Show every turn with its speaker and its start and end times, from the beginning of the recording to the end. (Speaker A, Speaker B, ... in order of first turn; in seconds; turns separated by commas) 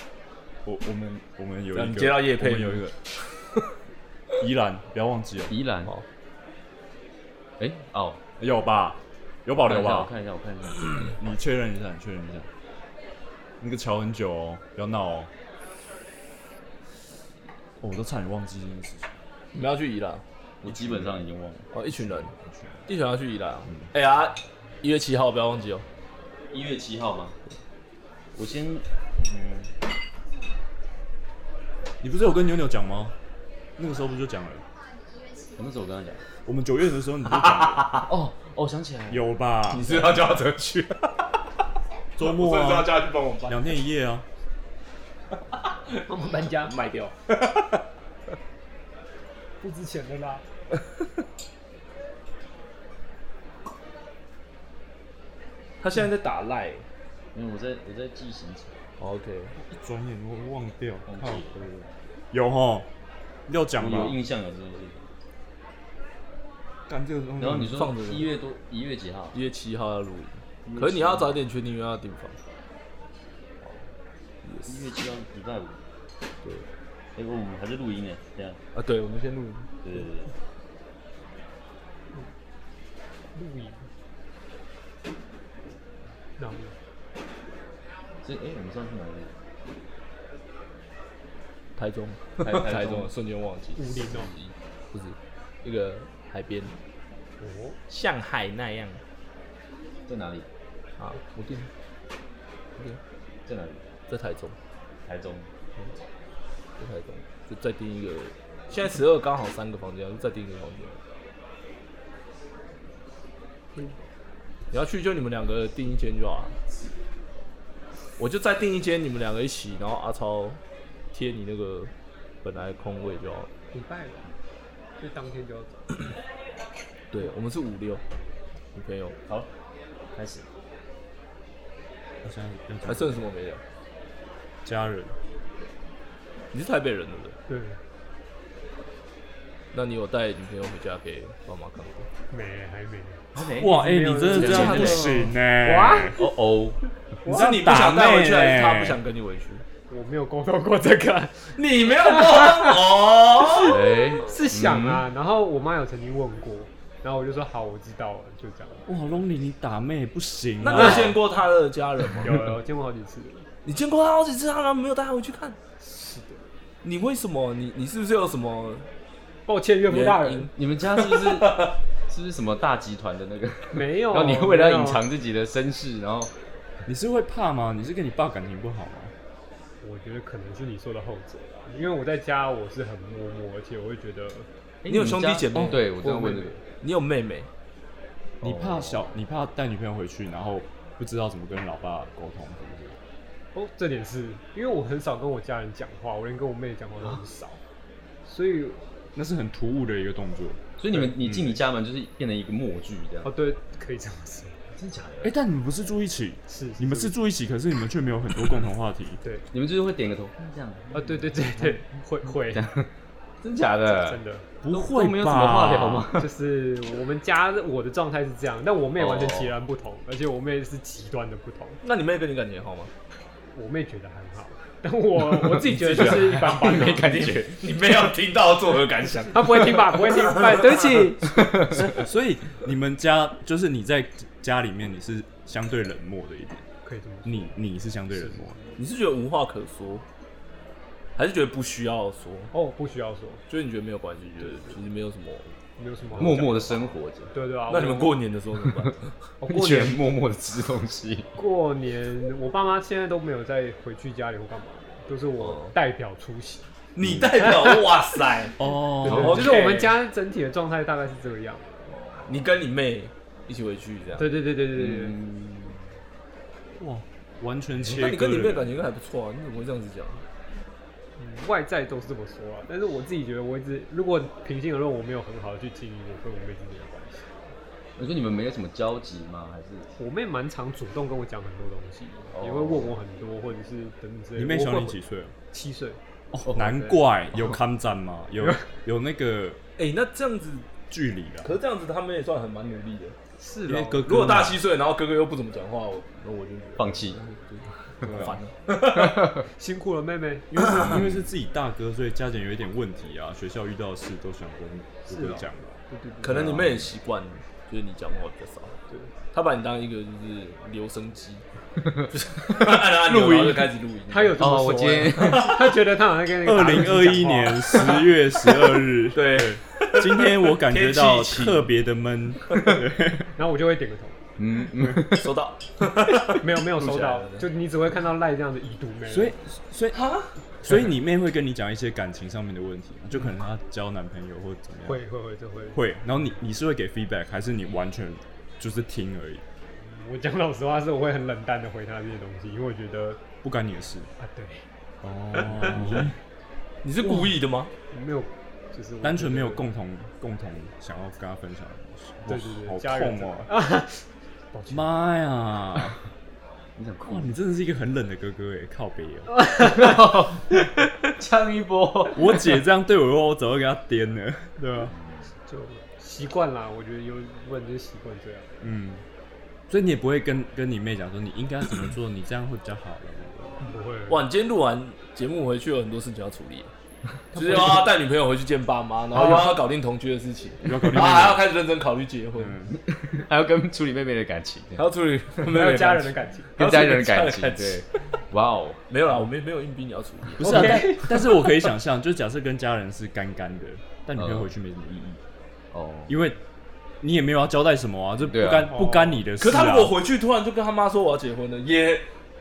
Speaker A: 0.7-2.9, Speaker B: 1.7-2.9, Speaker A: 4.4-5.6, Speaker C: 5.5-5.9, Speaker C: 7.6-8.2, Speaker A: 8.4-10.1, Speaker C: 9.6-11.2, Speaker A: 11.2-12.5, Speaker A: 13.6-15.3, Speaker A: 17.8-19.2, Speaker B: 19.5-20.2, Speaker C: 20.6-21.7, Speaker A: 20.6-21.2, Speaker B: 21.7-22.3, Speaker A: 22.1-22.9, Speaker B: 22.9-25.9, Speaker C: 26.5-27.4, Speaker C: 28.4-29.7, Speaker A: 32.0-33.1, Speaker A: 33.8-34.6, Speaker C: 35.5-36.2, Speaker A: 36.5-38.0, Speaker B: 37.4-38.0, Speaker C: 37.9-40.3, Speaker A: 39.1-40.0, Speaker B: 39.7-41.1, Speaker A: 42.2-44.3, Speaker B: 42.2-43.7, Speaker D: 46.1-46.7, Speaker B: 46.6-47.8, Speaker D: 49.6-50.4, Speaker B: 55.8-56.9, Speaker C: 57.3-58.9, Speaker B: 59.0-59.5, Speaker A: 59.6-61.5, Speaker C: 61.1-61.9, Speaker A: 62.3-62.9, Speaker A: 63.5-64.2, Speaker C: 63.8-65.1, Speaker A: 66.9-67.8, Speaker C: 67.4-69.4, Speaker B: 67.7-68.3, Speaker B: 69.3-72.4, Speaker C: 70.7-71.3, Speaker B: 74.4-74.9, Speaker C: 74.7-75.8, Speaker C: 77.2-78.6, Speaker B: 78.8-79.7, Speaker C: 79.8-80.3, Speaker D: 83.3-83.9, Speaker D: 86.4-86.8, Speaker C: 88.2-89.3, Speaker B: 91.8-96.8, Speaker C: 92.4-93.1, Speaker D: 93.8-94.3, Speaker D: 97.4-97.8, Speaker B: 97.9-99.0, Speaker C: 100.1-100.5, Speaker B: 101.0-101.7, Speaker C: 103.5-103.9, Speaker B: 104.1-104.6, Speaker C: 105.0-105.5, Speaker B: 106.8-111.0, Speaker D: 113.8-114.1, Speaker B: 114.7-116.6, Speaker B: 118.2-120.6, Speaker B: 121.1-121.9, Speaker B: 122.4-123.5, Speaker D: 123.7-124.3, Speaker D: 125.0-126.0, Speaker B: 127.1-128.0, Speaker B: 128.7-129.2, Speaker C: 130.2-130.5, Speaker A: 132.2-133.2, Speaker B: 132.8-133.6, Speaker A: 134.7-135.2, Speaker B: 136.5-137.4, Speaker D: 137.5-137.8, Speaker B: 139.7-142.1, Speaker D: 142.3-145.0, Speaker B: 143.3-143.8, Speaker C: 143.4-143.7, Speaker A: 143.6-146.2, Speaker B: 144.3-145.3, Speaker C: 144.3-145.2, Speaker D: 145.6-146.2, Speaker C: 146.1-146.8, Speaker D: 147.2-147.6, Speaker A: 147.3-149.0, Speaker B: 147.3-149.7, Speaker D: 149.9-152.8, Speaker B: 151.5-153.8, Speaker C: 153.6-155.1, Speaker D: 154.2-158.9, Speaker A: 158.9-161.2, Speaker B: 160.6-162.5, Speaker D: 160.7-161.0, Speaker D: 162.2-163.5, Speaker B: 163.6-165.6, Speaker D: 165.8-166.4, Speaker B: 166.8-168.9, Speaker D: 169.5-170.5, Speaker B: 169.9-171.7, Speaker C: 170.6-176.3, Speaker D: 173.7-175.0, Speaker A: 176.9-179.1, Speaker D: 179.8-184.5, Speaker C: 184.8-186.6, Speaker B: 184.9-187.5, Speaker A: 185.5-185.8, Speaker C: 188.4-189.1, Speaker A: 188.4-193.0, Speaker D: 193.5-197.6, Speaker D: 198.2-198.8, Speaker A: 199.2-201.6, Speaker C: 200.8-203.3, Speaker D: 203.2-204.6, Speaker C: 204.8-205.3, Speaker A: 205.2-209.2, Speaker D: 206.5-207.2, Speaker C: 209.5-211.8, Speaker D: 210.9-212.7, Speaker C: 212.5-212.9, Speaker C: 213.4-214.2, Speaker D: 213.9-214.5, Speaker A: 214.6-216.1, Speaker C: 214.7-216.3, Speaker D: 216.2-221.8, Speaker C: 219.0-219.5, Speaker B: 221.8-222.9, Speaker D: 223.5-227.3, Speaker B: 225.6-231.2, Speaker C: 225.8-227.9, Speaker D: 229.3-231.4, Speaker C: 231.2-232.0, Speaker A: 231.7-236.7, Speaker D: 236.8-237.6, Speaker A: 237.2-238.6, Speaker D: 238.1-238.7, Speaker B: 238.8-240.0, Speaker B: 241.2-242.5, Speaker D: 242.5-243.4, Speaker B: 243.5-245.5, Speaker D: 244.4-244.8, Speaker D: 245.8-248.2, Speaker C: 246.2-247.3, Speaker B: 246.2-246.5, Speaker B: 247.7-249.1, Speaker C: 248.6-248.9, Speaker D: 249.4-250.0, Speaker C: 249.4-251.3, Speaker D: 251.3-256.7, Speaker B: 255.4-255.7, Speaker B: 257.0-260.0, Speaker D: 257.4-257.9, Speaker A: 258.6-259.6, Speaker C: 259.1-259.4, Speaker D: 259.1-262.0, Speaker B: 262.2-264.4, Speaker D: 264.2-265.2, Speaker C: 264.7-265.8, Speaker A: 266.8-268.8, Speaker B: 267.8-270.2, Speaker D: 271.2-277.4, Speaker C: 278.0-279.9, Speaker D: 280.0-286.0, Speaker C: 282.3-282.9, Speaker A: 284.4-285.4, Speaker A: 286.3-289.6, Speaker C: 286.5-287.4, Speaker B: 289.8-290.7, Speaker A: 290.9-291.5, Speaker B: 291.4-293.2, Speaker D: 293.4-294.1, Speaker A: 293.7-294.6, Speaker B: 294.1-299.4, Speaker C: 296.8-297.2, Speaker A: 298.1-298.4, Speaker C: 298.9-299.2, Speaker D: 299.6-300.6, Speaker A: 300.5-306.9, Speaker B: 300.6-301.0, Speaker C: 300.8-301.2, Speaker D: 305.1-306.5, Speaker B: 306.2-308.8, Speaker C: 306.3-306.8, Speaker B: 309.3-311.4, Speaker C: 311.9-313.7, Speaker B: 312.1-314.5, Speaker D: 314.1-318.0, Speaker C: 314.4-315.6, Speaker B: 315.2-315.7, Speaker A: 316.4-323.3, Speaker B: 319.1-321.7, Speaker D: 323.4-324.2, Speaker C: 324.4-325.3, Speaker B: 325.0-327.4, Speaker D: 326.4-329.3, Speaker A: 329.1-330.0, Speaker B: 329.9-330.3, Speaker A: 330.6-335.0, Speaker D: 334.9-335.8, Speaker A: 335.7-339.4, Speaker D: 339.8-343.2, Speaker A: 343.4-344.1, Speaker D: 344.2-344.7, Speaker A: 345.0-346.1, Speaker D: 345.4-346.1, Speaker B: 346.8-347.7, Speaker A: 347.0-347.3, Speaker D: 347.9-349.6, Speaker A: 349.0-353.5, Speaker D: 352.3-354.9, Speaker A: 354.7-356.0, Speaker C: 356.8-357.3, Speaker A: 357.1-359.4, Speaker D: 359.4-359.9, Speaker C: 359.6-362.3, Speaker A: 362.1-364.9, Speaker C: 364.9-365.3, Speaker D: 365.5-368.6, Speaker A: 368.6-369.1, Speaker A: 369.7-373.6, Speaker D: 373.6-374.2, Speaker B: 374.1-376.7, Speaker D: 377.4-377.9, Speaker B: 377.4-382.6, Speaker D: 379.2-379.5, Speaker A: 380.6-381.4, Speaker A: 382.4-382.8, Speaker C: 382.9-384.9, Speaker B: 384.8-387.9, Speaker D: 385.5-386.5, Speaker C: 386.6-388.8, Speaker B: 388.9-391.0, Speaker A: 390.4-395.2, Speaker C: 390.4-391.3, Speaker C: 394.2-394.5, Speaker C: 395.7-396.2, Speaker A: 396.1-396.4, Speaker A: 397.0-399.9, Speaker C: 398.2-398.8, Speaker D: 398.7-399.2, Speaker B: 399.4-402.1